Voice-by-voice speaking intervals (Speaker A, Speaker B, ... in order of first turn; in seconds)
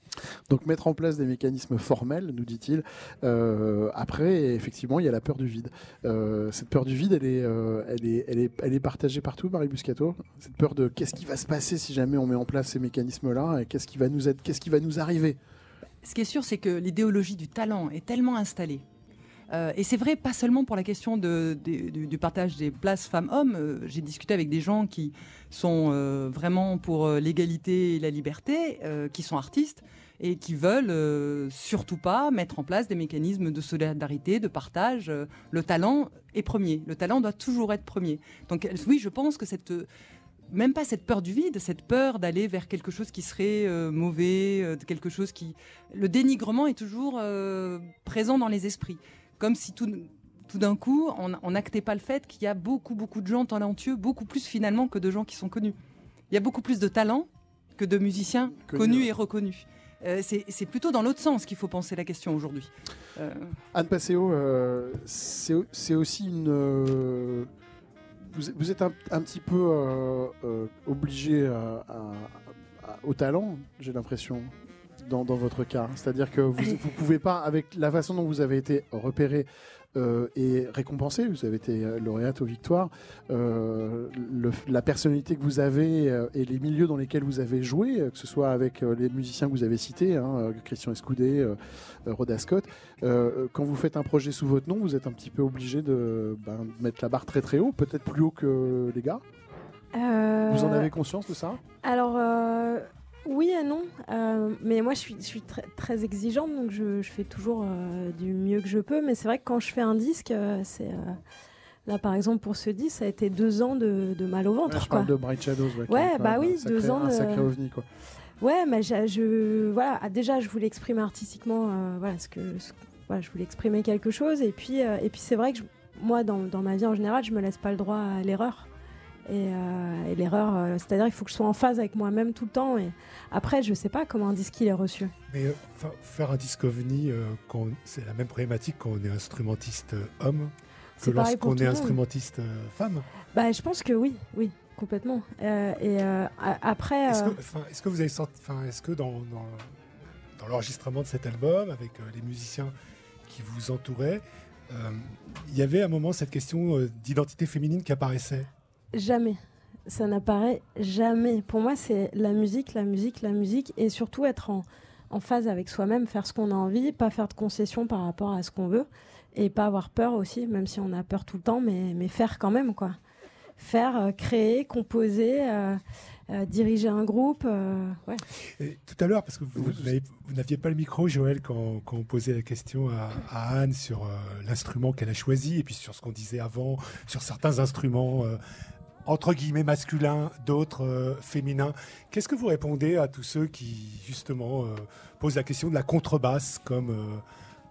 Speaker A: 0.5-15.4, 58.6-59.1, 63.7-67.5, 68.2-99.2, 100.5-101.6, 114.6-117.8, 179.5-179.9
Speaker B: 16.0-18.8, 19.5-39.9, 40.5-55.8, 56.3-63.5
Speaker C: 99.9-100.9, 101.7-111.2, 111.8-115.1, 115.9-117.5, 118.4-128.7, 129.3-135.1, 141.0-142.0, 143.3-147.4, 158.9-173.0, 173.6-178.2
Speaker D: 135.3-143.1, 147.1-149.7, 150.4-152.7, 153.3-158.5, 178.5-188.4, 189.0-197.2